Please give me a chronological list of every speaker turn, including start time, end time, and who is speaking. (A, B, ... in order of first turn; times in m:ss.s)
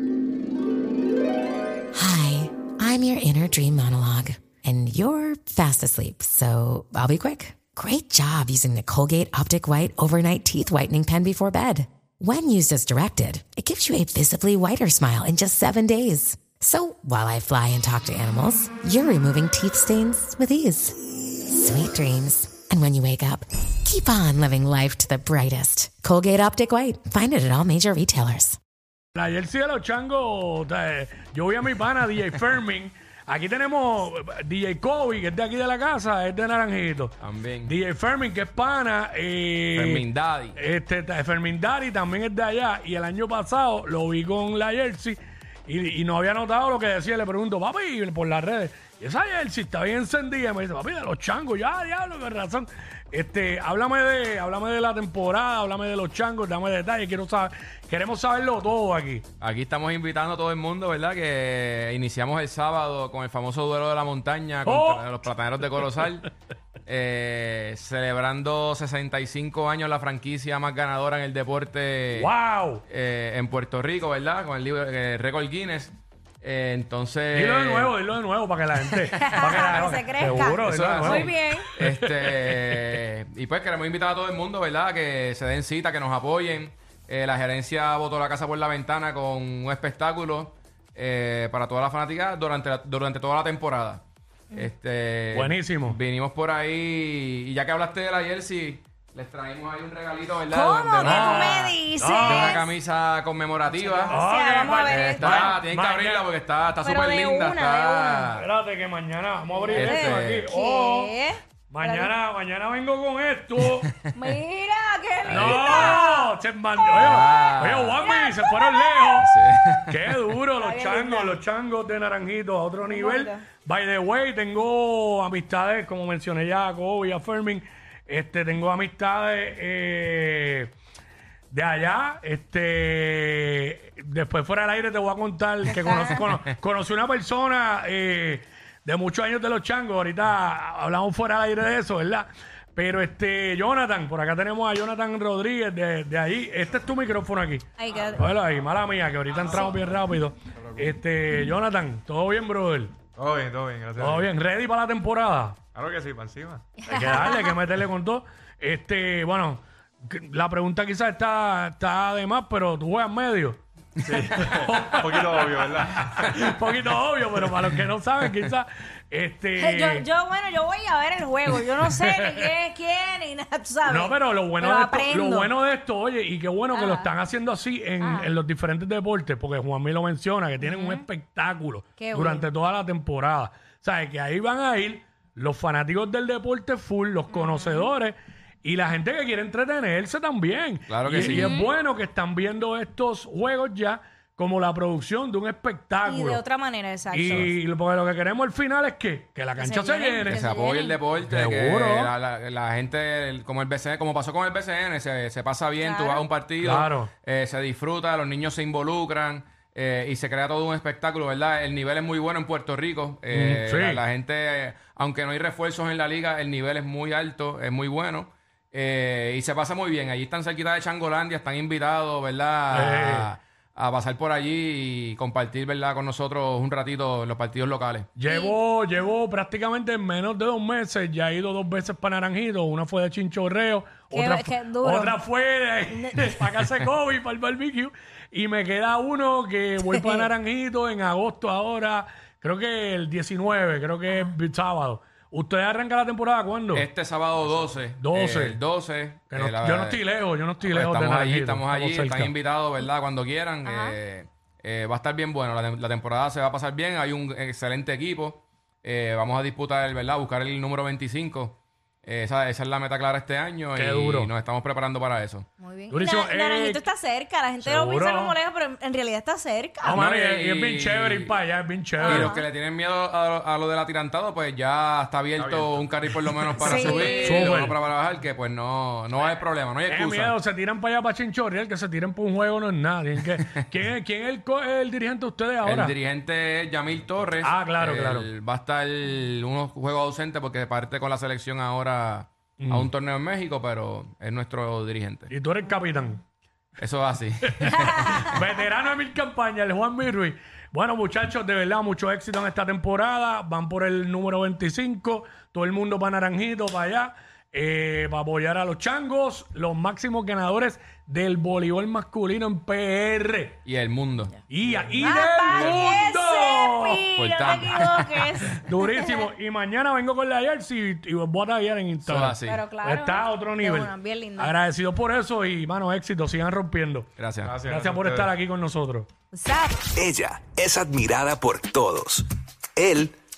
0:01.9-0:28.6 A
0:29.2-0:40.0 B
0:37.2-0:37.7 C
0:39.7-0:40.6 C
0:40.6-0:59.2 B
0:59.4-1:06.3 C
1:04.6-1:05.1 B
1:06.9-1:12.3 C
1:12.1-1:12.8 B
1:12.9-1:18.0 C
1:17.3-1:22.8 B
1:19.2-1:21.7 D
1:19.3-1:41.6 C
1:35.3-1:36.0 B
1:40.5-1:42.7 D
1:41.0-1:42.6 B
1:42.2-1:48.5 C
1:43.8-1:45.5 D
1:44.1-1:46.3 B
1:46.8-1:48.3 D
1:48.4-1:51.1 B
1:49.5-1:52.1 D
1:49.7-1:50.5 C
1:51.7-1:53.9 B
1:53.6-1:54.0 C
1:54.1-1:59.2 D
1:55.2-1:59.3 B
1:55.2-1:56.0 C
1:57.0-1:58.0 C
1:59.2-2:00.2 C
1:59.9-2:10.7 B
2:00.6-2:01.4 D
2:02.8-2:03.4 D
2:11.5-2:33.0 B
2:15.8-2:16.2 D
2:27.8-2:28.4 D
2:33.1-2:34.3 E
2:34.0-2:35.6 B
2:35.8-2:37.3 E
2:36.8-2:37.6 D
2:36.9-2:50.1 B
2:44.1-2:46.9 E
2:49.6-2:55.5 D
2:51.8-2:52.5 B
2:53.9-3:16.4 B
2:56.7-2:57.2 D
2:58.0-2:58.4 D
3:00.6-3:01.0 D
3:02.0-3:02.5 D
3:07.3-3:07.9 D
3:10.9-3:11.6 C
3:11.2-3:11.7 D
3:16.0-3:17.5 D
3:17.1-3:20.4 B
3:19.6-3:21.0 D
3:20.2-3:48.1 C
3:21.2-3:22.1 B
3:25.8-3:26.3 D
3:26.6-3:27.1 B
3:33.3-3:34.0 B
3:42.7-3:43.3 B
3:48.2-4:06.9 B
3:48.3-3:48.6 D
3:54.1-3:55.2 D
3:55.9-3:56.3 D
3:59.8-4:00.3 D
4:06.7-4:10.0 C
4:08.0-4:08.6 B
4:09.3-4:12.3 B
4:10.6-4:25.5 C
4:13.6-4:14.0 D
4:23.7-4:24.3 B
4:25.6-4:30.0 D
4:25.9-4:26.8 B
4:27.6-4:28.4 B
4:29.8-4:32.4 B
4:29.9-4:31.4 C
4:32.0-4:32.5 D
4:32.0-4:40.4 C
4:35.4-4:36.0 E
4:36.5-4:37.6 D
4:36.6-4:37.8 B
4:39.9-4:46.0 B
4:45.6-4:55.3 C
4:47.4-4:48.3 B
4:52.6-4:52.9 B
4:55.3-4:56.2 B
4:56.8-4:58.1 C
4:57.5-5:13.6 B
5:13.6-5:14.9 C
5:14.5-5:17.7 B
5:14.9-5:19.3 D
5:15.5-5:15.9 C
5:17.2-5:18.4 C
5:18.5-5:27.1 B
5:22.0-5:22.6 C
5:22.4-5:24.6 D
5:27.2-5:27.6 C
5:27.4-5:28.4 E
5:27.6-5:29.1 B
5:29.3-5:29.8 D
5:29.9-5:33.2 F